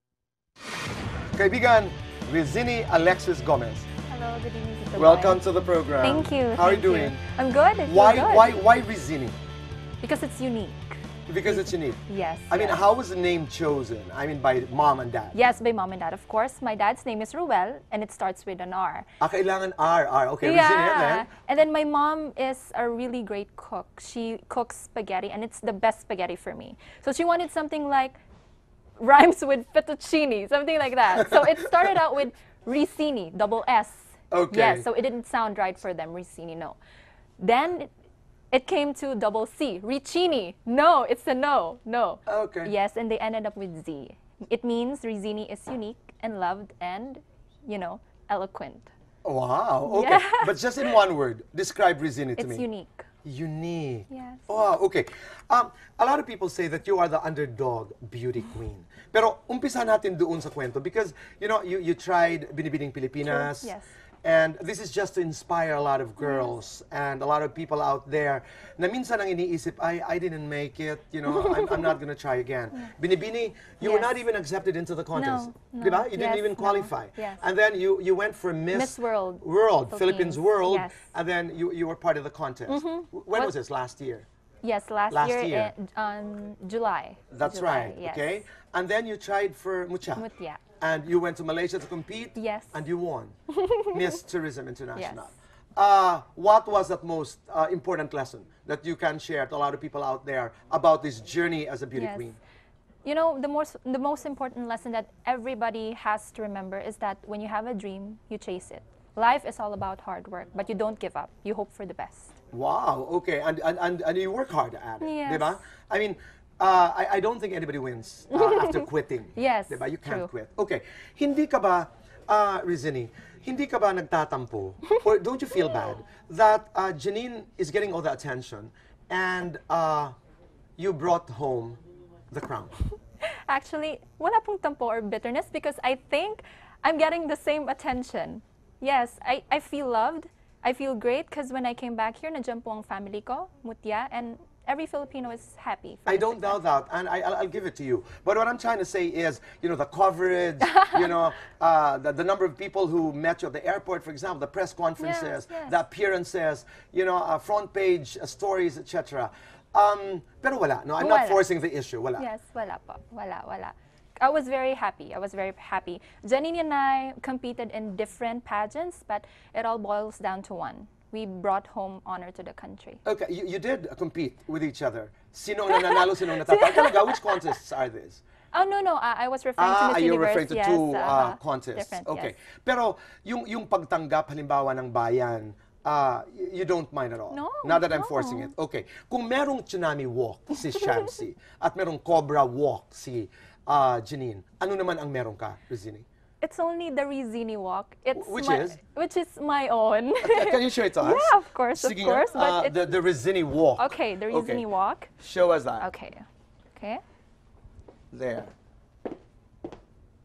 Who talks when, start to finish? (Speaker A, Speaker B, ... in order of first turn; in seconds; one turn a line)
Speaker A: 1.3-3.9
Speaker B: 4.1-5.4
Speaker A: 5.0-7.2
Speaker B: 6.0-8.6
Speaker A: 7.9-9.3
Speaker B: 10.0-12.8
Speaker A: 11.3-15.3
Speaker B: 15.3-19.1
Speaker A: 19.2-21.3
Speaker B: 20.4-28.2
Speaker B: 29.0-36.8
Speaker A: 34.3-34.9
Speaker B: 37.4-37.9
Speaker B: 38.5-48.9
Speaker A: 42.3-42.7
Speaker A: 49.2-52.6
Speaker B: 49.8-50.9
Speaker B: 52.4-53.1
Speaker A: 53.2-63.7
Speaker B: 54.1-54.6
Speaker B: 63.2-63.9
Speaker A: 64.2-84.2
Speaker B: 66.2-66.5
Speaker B: 71.3-72.0
Speaker B: 73.8-74.2
Speaker B: 75.1-77.4
Speaker B: 78.7-81.0
Speaker B: 82.7-83.5
Speaker B: 84.6-88.5
Speaker A: 85.1-85.7
Speaker A: 87.3-90.2
Speaker B: 90.2-90.6
Speaker A: 90.8-93.3
Speaker B: 92.3-92.8
Speaker B: 93.5-94.0
Speaker A: 93.9-102.4
Speaker B: 94.9-95.3
Speaker B: 101.9-102.3
Speaker B: 103.0-112.3
Speaker A: 112.5-130.1
Speaker B: 115.0-115.6
Speaker B: 118.3-120.3
Speaker A: 130.8-131.8
Speaker A: 132.3-132.7
Speaker B: 133.5-146.6
Speaker A: 146.1-162.2
Speaker B: 155.0-155.8
Speaker B: 161.0-161.5
Speaker B: 162.2-173.0
Speaker A: 173.0-178.2
Speaker B: 175.7-177.4
Speaker B: 178.5-182.3
Speaker A: 179.6-196.1
Speaker B: 187.3-188.5
Speaker B: 196.4-202.9
Speaker A: 198.1-198.8
Speaker A: 200.2-204.6
Speaker B: 203.8-205.1
Speaker A: 205.2-205.9
Speaker B: 205.8-207.0
Speaker A: 208.1-208.5